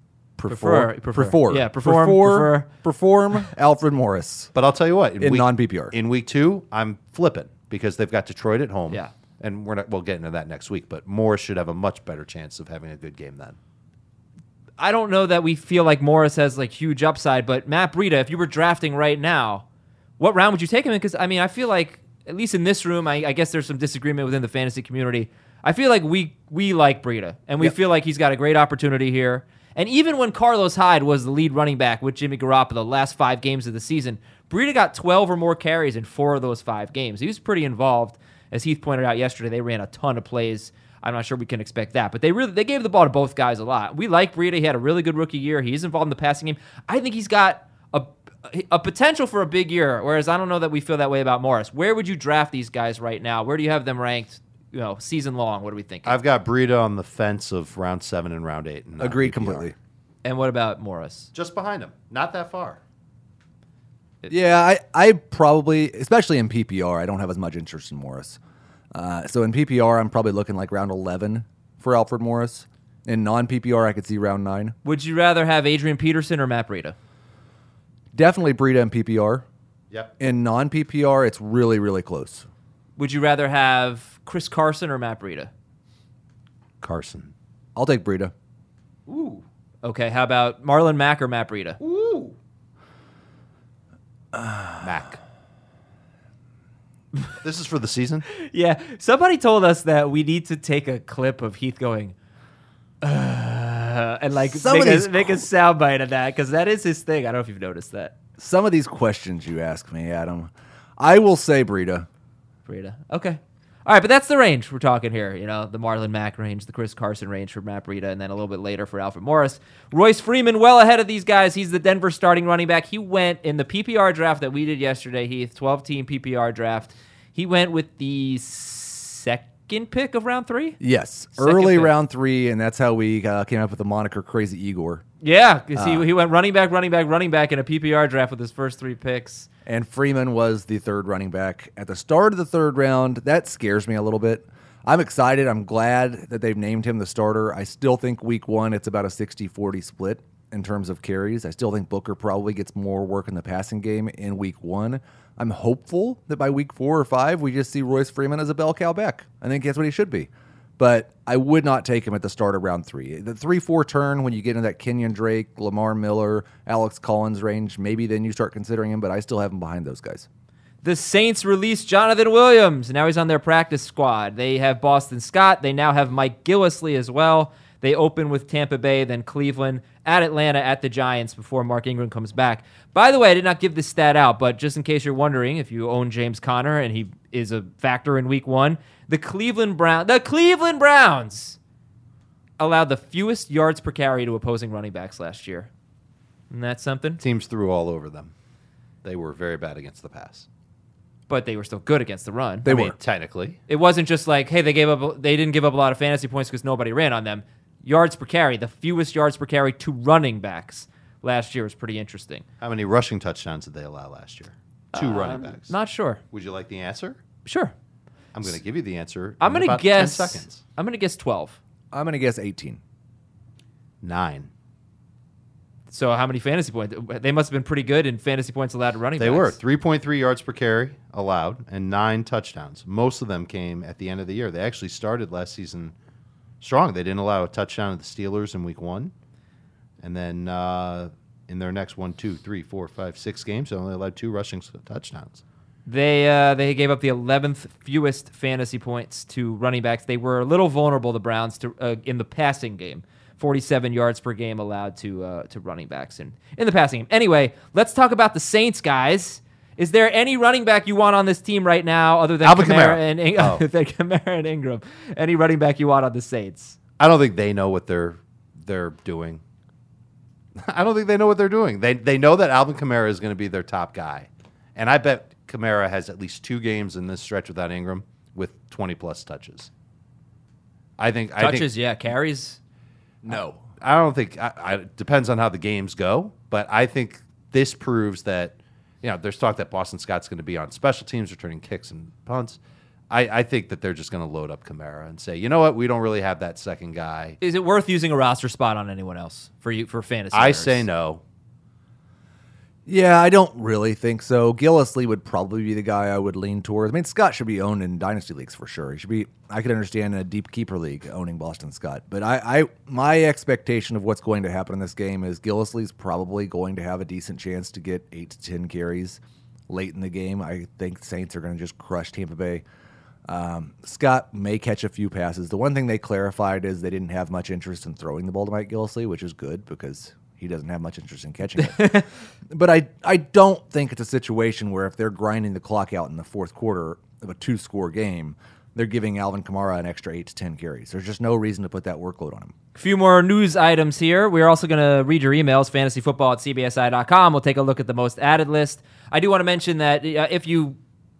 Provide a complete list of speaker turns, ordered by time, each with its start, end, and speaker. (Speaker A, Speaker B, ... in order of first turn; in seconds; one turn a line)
Speaker A: 0.4-4.5
Speaker B: 0.5-2.7
Speaker C: 4.5-13.6
Speaker A: 5.2-5.9
Speaker B: 14.8-19.6
Speaker B: 20.2-56.2
Speaker C: 56.0-59.7
Speaker A: 59.0-59.7
Speaker B: 60.2-61.3
Speaker C: 61.3-62.8
Speaker A: 64.3-68.4
Speaker A: 68.9-74.8
Speaker B: 74.8-76.9
Speaker A: 78.1-79.4
Speaker A: 80.2-82.5
Speaker B: 83.0-85.5
Speaker C: 86.8-87.3
Speaker A: 87.8-88.3
Speaker C: 89.1-89.4
Speaker B: 89.8-91.8
Speaker C: 91.8-92.3
Speaker C: 94.8-95.2
Speaker C: 97.4-98.2
Speaker B: 98.3-102.1
Speaker B: 103.0-108.1
Speaker A: 104.4-105.4
Speaker A: 108.4-112.1
Speaker B: 112.7-130.8
Speaker A: 130.8-135.0
Speaker B: 131.3-131.9
Speaker B: 135.2-139.5
Speaker A: 135.7-136.1
Speaker A: 139.7-170.3
Speaker B: 170.8-191.6
Speaker B: 192.6-195.7
Speaker B: 196.5-197.2
Speaker C: 197.2-198.3
Speaker C: 199.0-200.4
Speaker B: 201.3-202.9
Speaker A: 202.6-202.9
Speaker C: 202.8-203.6
Speaker B: 203.7-212.4
Speaker C: 212.6-215.7
Speaker B: 214.9-216.2
Speaker C: 216.3-217.2
Speaker B: 217.4-217.7
Speaker C: 218.3-220.6
Speaker B: 219.4-221.6
Speaker A: 221.9-222.8
Speaker C: 224.0-224.5
Speaker B: 225.9-229.6
Speaker C: 229.2-235.9
Speaker C: 236.6-239.1
Speaker C: 240.0-245.4
Speaker B: 245.8-266.8
Speaker C: 262.4-263.6
Speaker C: 267.0-269.4
Speaker C: 270.6-279.7
Speaker C: 281.0-281.7
Speaker B: 281.4-282.6
Speaker A: 283.2-283.6
Speaker C: 283.8-292.6
Speaker C: 293.1-297.4
Speaker B: 297.4-300.9
Speaker C: 300.3-301.2
Speaker A: 302.9-322.6
Speaker A: 323.2-342.5
Speaker B: 342.7-350.8